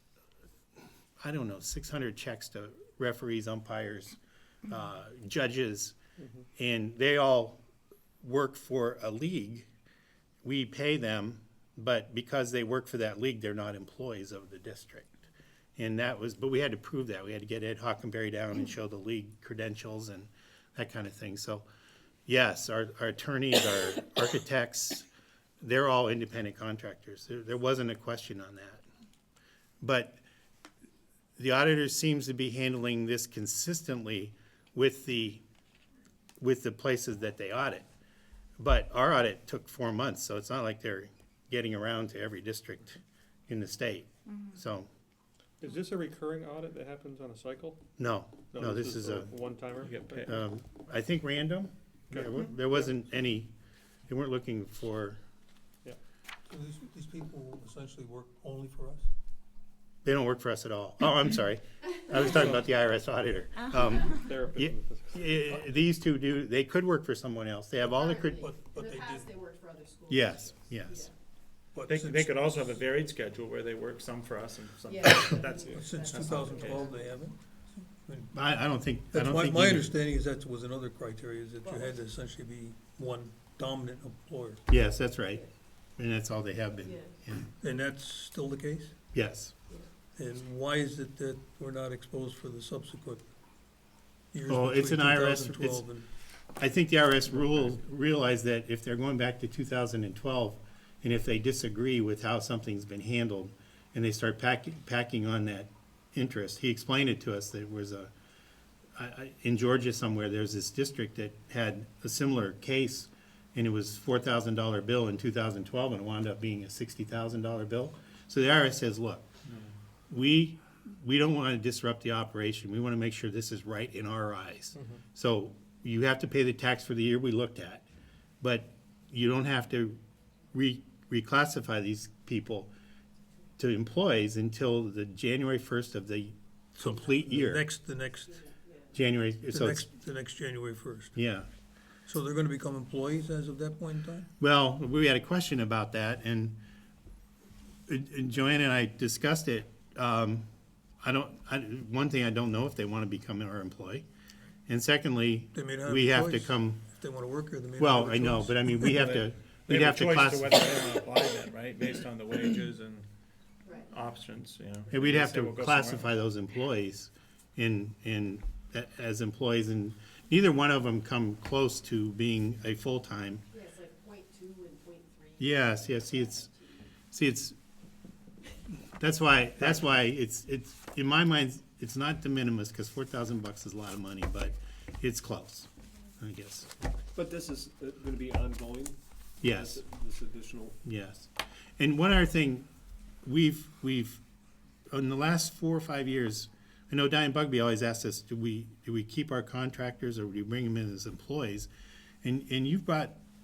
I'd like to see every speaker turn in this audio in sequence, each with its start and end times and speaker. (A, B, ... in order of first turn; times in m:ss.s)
0:01.2-0:06.0 A
0:06.6-0:07.6 A
0:08.2-0:09.7 A
0:10.4-0:15.2 A
0:15.8-0:21.7 A
0:22.3-0:25.1 A
0:25.6-0:28.8 A
0:29.8-0:30.2 A
0:31.4-0:35.4 A
0:36.4-0:37.9 A
0:38.6-0:44.9 A
0:45.6-0:47.8 B
0:48.0-0:49.3 A
0:48.6-0:50.4 C
0:49.4-0:50.3 B
0:50.3-0:53.5 A
0:54.1-0:55.2 A
0:56.5-0:59.1 D
1:00.0-1:08.4 A
1:04.2-1:04.9 C
1:04.5-1:05.2 B
1:07.9-1:11.1 E
1:08.4-1:09.3 D
1:10.1-1:11.1 A
1:11.7-1:12.8 D
1:11.9-1:16.8 C
1:14.9-1:17.2 E
1:15.7-1:18.3 D
1:18.3-1:19.9 A
1:19.1-1:24.6 D
1:21.6-1:22.0 E
1:24.7-1:25.4 A
1:26.0-1:27.5 A
1:26.8-1:27.1 E
1:27.6-1:29.0 D
1:29.1-1:29.5 A
1:30.2-1:33.3 D
1:34.3-1:36.0 D
1:34.5-1:35.8 A
1:36.6-1:48.1 A
1:49.0-1:59.3 A
2:00.1-2:07.9 A
2:08.4-2:10.0 A
2:10.5-2:12.7 A
2:13.6-2:17.6 A
2:16.8-2:18.5 D
2:18.9-2:19.8 A
2:19.5-2:21.2 D
2:21.2-2:21.5 A
2:22.1-2:24.3 D
2:24.4-2:26.6 A
2:27.9-2:30.5 A
2:31.0-2:34.1 A
2:34.7-2:36.8 A
2:35.5-2:38.9 D
2:37.8-2:40.6 A
2:38.9-2:43.1 C
2:43.6-2:43.9 E
2:43.9-2:46.1 C
2:44.9-2:53.4 A
2:53.5-2:56.8 E
2:55.4-2:56.5 A
2:57.1-2:57.6 A
2:59.0-3:05.7 A
3:06.2-3:06.7 A
3:07.1-3:10.8 F
3:09.4-3:09.8 A
3:10.8-3:12.7 A
3:13.2-3:14.2 A
3:14.9-3:21.7 A
3:22.2-3:23.2 A